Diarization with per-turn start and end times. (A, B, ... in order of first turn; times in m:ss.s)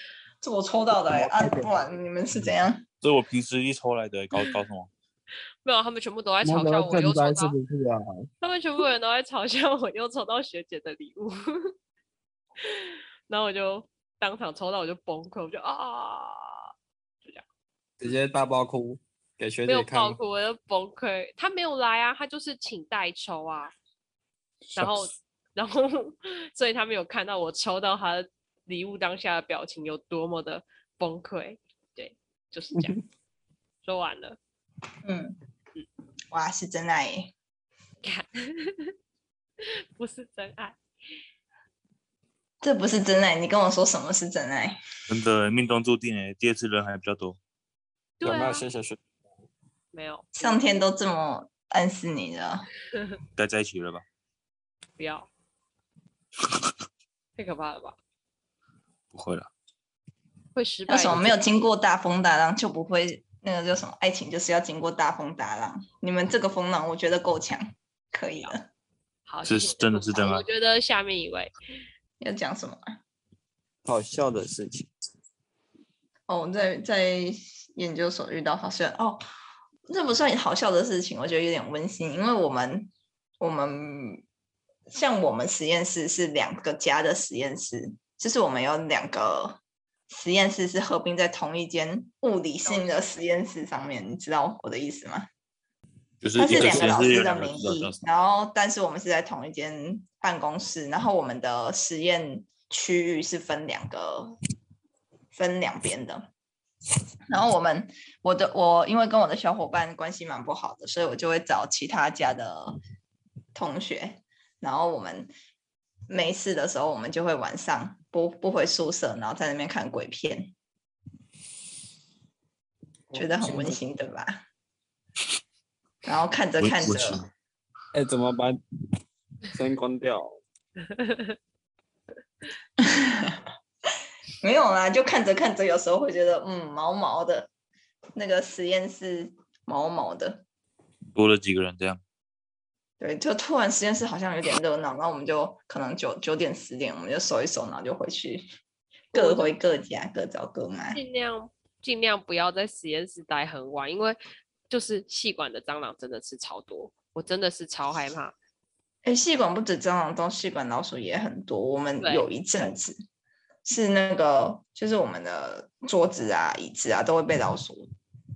0:00.4-0:02.8 A
0:01.1-0:01.7 B
0:03.0-0:04.9 C
0:05.6-0:07.6 D
0:06.4-0:08.3 B
0:08.4-0:11.7 D
0:12.6-0:16.7 D
0:18.0-0:20.2 B
0:19.7-0:23.7 D
0:24.8-0:33.0 D
0:33.8-0:34.4 D
0:35.0-0:35.4 A
0:36.3-0:37.3 A
0:38.0-0:38.9 D
0:40.0-0:40.8 D
0:42.6-0:44.8 A
0:45.1-0:47.4 C
0:48.2-0:48.6 D
0:48.2-0:49.0 B
0:49.9-0:50.6 D
0:50.4-0:52.7 A
0:53.4-0:54.0 C
0:55.0-0:55.3 D
0:57.4-0:58.0 D
0:59.1-0:59.5 C
1:00.6-1:01.4 D
1:00.9-1:08.7 A
1:09.3-1:11.5 D
1:09.4-1:10.5 C
1:12.2-1:12.8 A
1:13.8-1:14.9 B
1:16.3-1:19.2 A
1:19.9-1:24.2 A
1:24.9-1:29.6 A
1:30.1-1:35.3 A
1:32.6-1:33.0 D
1:36.2-1:38.0 C
1:36.4-1:44.4 A
1:36.6-1:36.8 B
1:45.3-1:46.3 A
1:47.3-1:52.8 A
1:53.6-1:55.3 A
1:56.1-2:00.5 A
2:03.1-2:03.8 B
2:03.2-2:04.4 A
2:06.0-2:07.2 A
2:06.6-2:07.3 C
2:07.9-2:08.6 B
2:09.5-2:10.4 B
2:10.9-2:11.4 D
2:12.8-2:13.4 A
2:14.4-2:17.5 A
2:18.2-2:20.4 A
2:21.2-2:22.0 C
2:23.0-2:28.4 A
2:29.1-2:31.0 A
2:29.1-2:29.5 D
2:30.9-2:34.2 D
2:34.7-2:38.4 D
2:39.0-2:43.0 A
2:42.0-2:42.3 D
2:43.6-2:47.9 A